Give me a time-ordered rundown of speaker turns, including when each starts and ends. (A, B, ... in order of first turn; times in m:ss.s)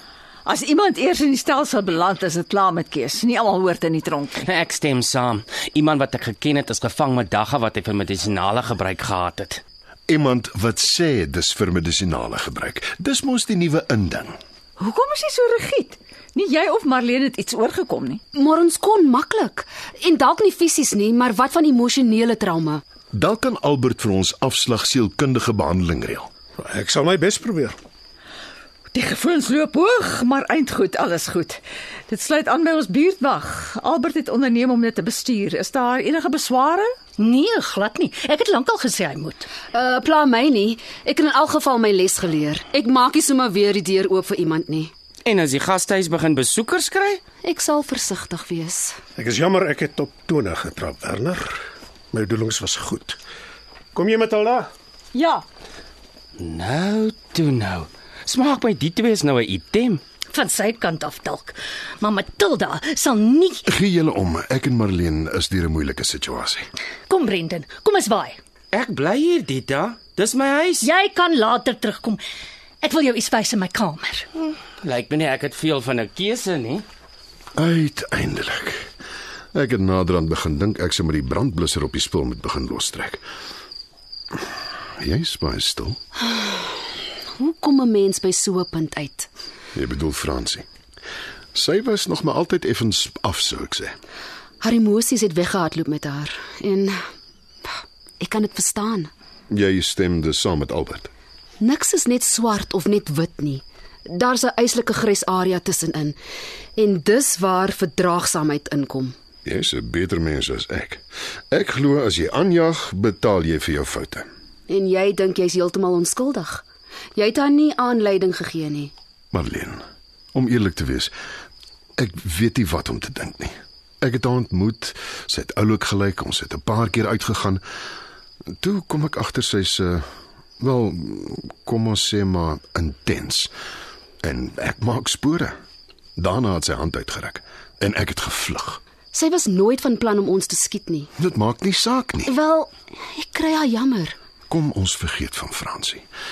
0:00.4-0:04.5 A
0:04.4-0:09.6 B
0:10.1-0:14.4 C
0:14.8-0:18.2 A
0:18.3-0:22.8 D
0:23.1-0:26.3 C
0:26.6-0:27.8 E
0:28.9-0:37.0 A
0:37.2-0:39.5 F
0:39.7-0:44.9 D
0:45.2-0:47.2 B
0:47.4-0:49.0 D
0:49.2-0:53.2 E
0:53.9-0:54.7 E
0:55.1-0:55.4 A
0:56.4-1:00.0 B
1:00.3-1:03.6 F
1:03.7-1:06.6 C
1:07.1-1:08.4 F
1:08.7-1:10.8 B
1:10.8-1:12.2 F
1:12.8-1:14.2 F
1:14.4-1:16.8 B
1:17.6-1:18.9 C
1:19.5-1:23.2 C
1:25.0-1:26.0 C
1:27.4-1:29.3 D
1:29.7-1:30.6 C
1:31.5-1:34.0 C
1:34.6-1:36.9 D
1:38.2-1:39.1 D
1:39.5-1:41.1 C
1:41.6-1:46.2 D
1:46.8-1:49.1 D
1:49.4-1:54.3 C
1:54.7-1:56.6 D
1:57.2-1:58.9 D
1:59.3-1:59.8 C
2:00.3-2:01.1 C
2:02.0-2:07.6 C
2:08.6-2:10.0 C
2:10.6-2:13.5 C
2:14.2-2:15.5 C
2:16.2-2:18.8 C
2:19.1-2:21.1 D
2:21.2-2:22.3 C
2:22.3-2:24.2 D
2:24.5-2:26.0 C